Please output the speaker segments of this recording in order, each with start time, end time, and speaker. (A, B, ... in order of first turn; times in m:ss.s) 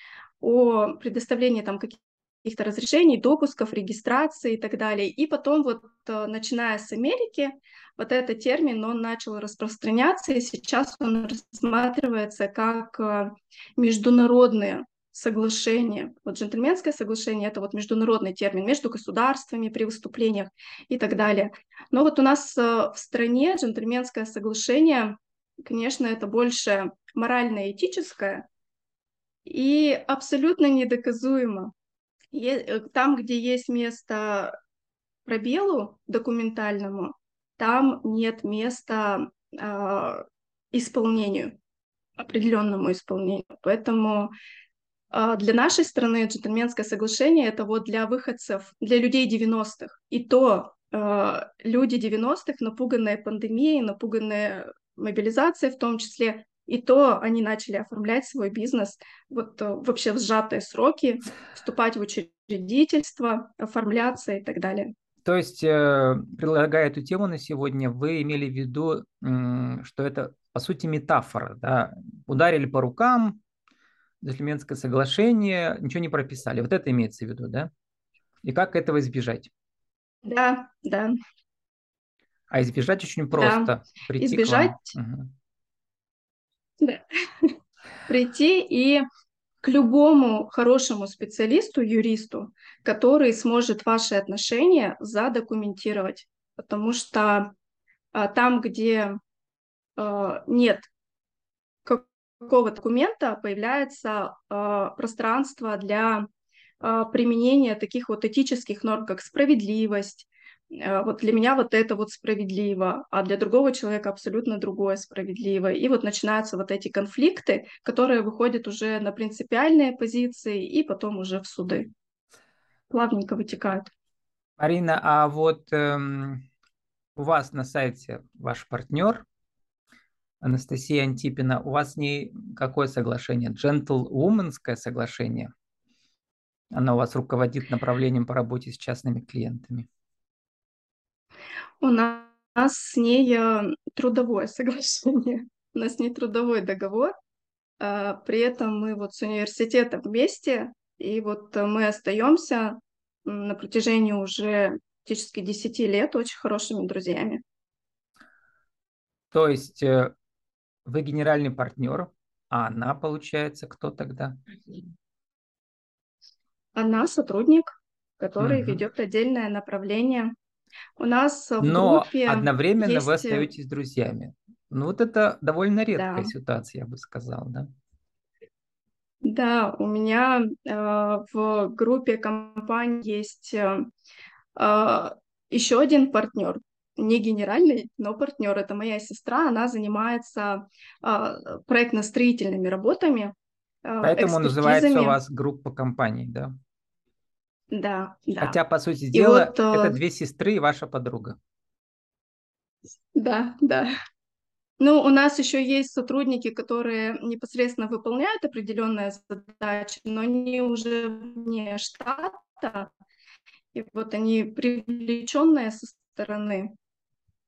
0:00.4-0:28.4 A
0:29.4-0:31.7 A
0:32.3-0:34.5 A
0:35.3-0:41.6 A
0:42.2-0:44.3 A
0:45.1-1:04.9 A
1:05.2-1:13.4 B
1:14.2-1:17.7 B
1:18.4-1:19.5 B
1:20.2-1:21.1 A
1:22.5-1:25.3 B
1:23.4-1:24.9 A
1:26.8-1:27.5 A
1:28.1-1:29.0 A
1:29.6-1:37.5 A
1:38.1-1:39.2 A
1:40.0-1:40.9 A
1:41.8-1:46.3 A
1:46.8-2:01.9 A
2:02.9-2:03.9 A
2:04.6-2:06.4 B
2:07.2-2:09.2 B
2:10.4-2:15.5 B
2:16.7-2:19.9 B
2:21.8-2:27.1 A
2:27.8-2:37.4 A
2:39.3-2:40.1 B
2:40.9-2:44.4 B
2:46.8-2:50.3 A
2:48.4-2:48.8 B
2:51.0-2:53.5 A
2:51.6-2:57.7 B
2:55.9-2:56.3 A
2:59.2-3:03.9 A
3:04.6-3:15.2 A
3:14.0-3:16.5 B
3:17.7-3:18.6 A
3:18.4-3:21.4 B
3:19.1-3:20.0 A
3:23.2-3:23.9 A
3:24.8-3:32.9 A
3:33.7-3:36.7 A